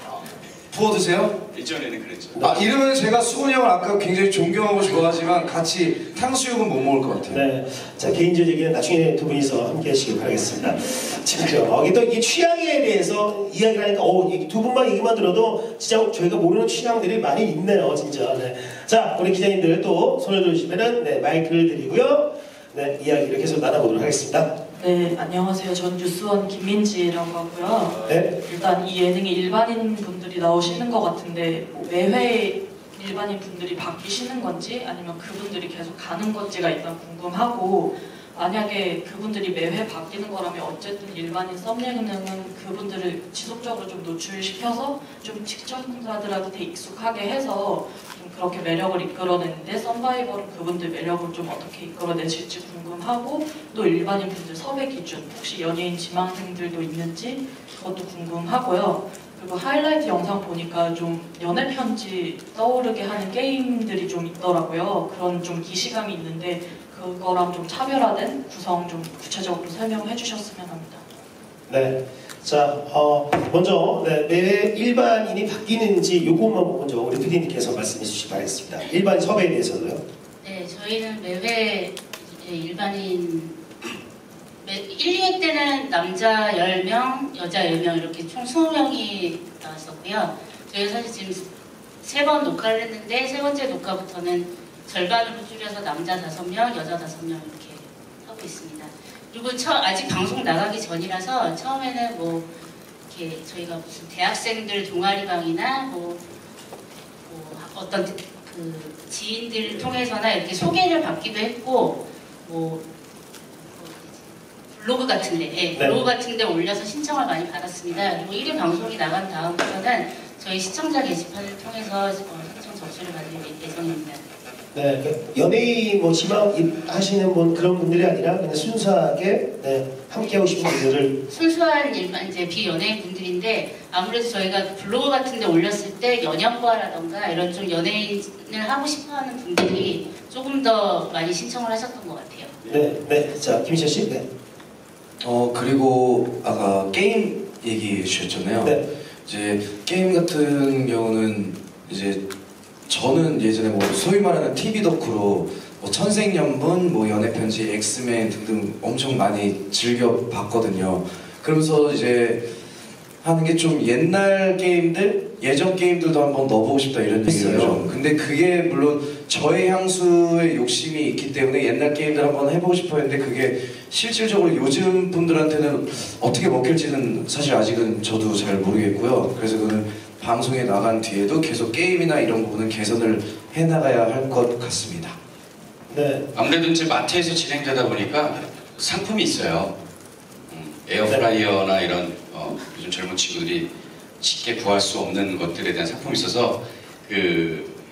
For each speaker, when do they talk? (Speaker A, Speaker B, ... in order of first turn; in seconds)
Speaker A: 0.7-1.4, 2.4-7.4, 145.2-152.2, 152.9-162.4, 163.2-185.2
Speaker B: 1.5-2.5, 186.3-189.7, 190.5-193.7, 194.2-197.7
Speaker C: 2.4-2.6, 7.3-24.5, 28.1-28.3, 71.7-80.0, 115.7-116.0, 124.7-131.2, 142.7-144.2, 167.2-167.8, 185.9-186.2
Speaker D: 24.7-71.0
Speaker E: 80.4-84.0, 84.6-91.4, 92.0-102.5, 103.1-106.2, 107.3-112.8, 113.6-124.2, 131.3-142.6